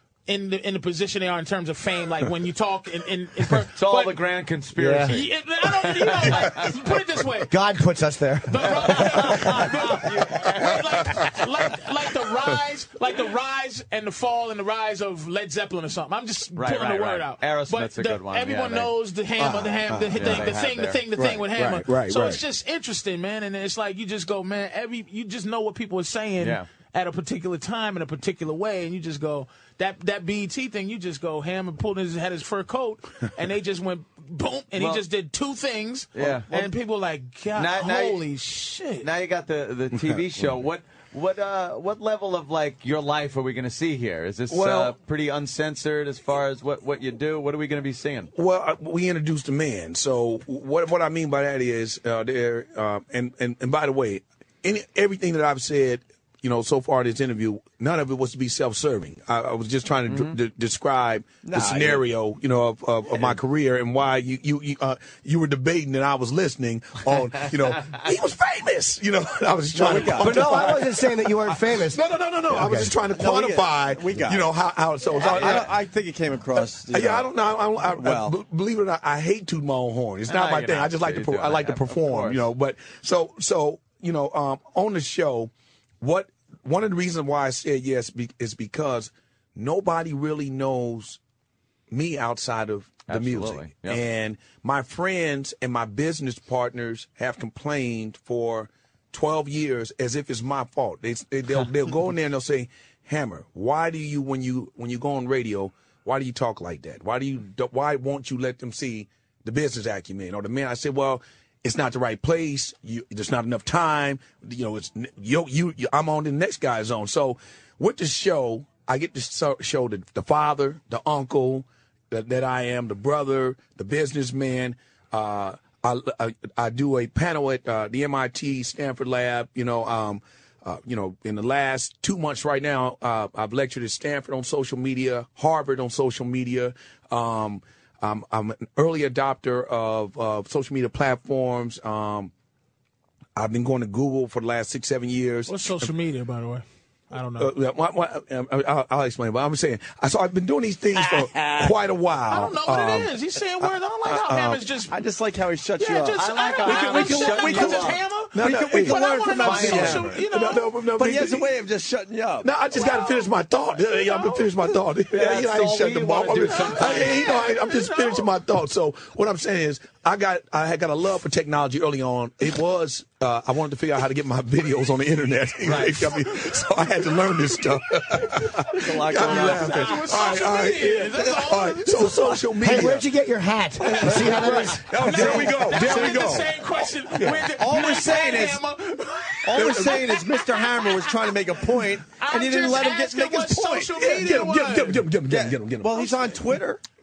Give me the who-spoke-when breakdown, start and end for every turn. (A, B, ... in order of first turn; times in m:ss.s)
0:00.3-0:04.2 A
0:03.7-0:06.7 B
0:04.8-0:05.1 C
0:05.1-0:07.5 A
0:06.3-0:06.7 D
0:07.5-0:09.4 C
0:08.5-0:39.1 A
0:08.9-0:11.2 B
0:16.6-0:18.9 B
0:19.4-0:20.6 D
0:20.1-0:21.0 B
0:21.1-0:22.4 D
0:26.4-0:26.6 B
0:34.8-0:35.0 B
0:36.1-0:36.5 B
0:36.2-0:36.7 E
0:37.5-0:38.2 B
0:39.0-0:48.3 B
0:44.5-0:44.9 D
0:48.3-1:15.7 D
1:01.4-1:02.0 E
1:09.7-1:10.8 E
1:09.9-1:12.9 C
1:13.1-1:14.5 E
1:15.1-1:17.3 E
1:15.3-1:15.6 B
1:16.6-1:31.2 D
1:17.9-1:18.4 E
1:20.3-1:22.4 B
1:31.9-2:22.3 D
1:33.1-1:34.0 B
2:23.4-2:25.8 D
2:25.5-2:27.5 A
2:27.4-2:33.1 D
2:31.4-2:31.7 B
2:32.3-2:34.9 A
2:34.1-2:34.6 D
2:34.9-2:40.2 E
2:35.8-2:40.7 A
2:36.2-2:38.0 B
2:38.3-2:41.5 D
2:39.2-2:40.2 B
2:41.0-2:42.5 E
2:42.4-3:03.0 D
2:42.8-2:43.2 A
2:43.8-2:44.4 A
2:45.1-2:47.2 B
2:46.4-2:48.3 A
2:55.6-2:56.2 B
2:58.7-3:00.2 E
2:59.2-3:02.4 A
3:02.6-3:05.4 C
3:03.8-3:11.3 A
3:04.0-3:06.5 E
3:04.1-3:06.5 D
3:07.2-3:08.6 E
3:09.5-3:14.1 E
3:09.5-3:10.1 D
3:12.1-3:15.0 A
3:13.9-3:16.3 D
3:15.3-3:16.8 E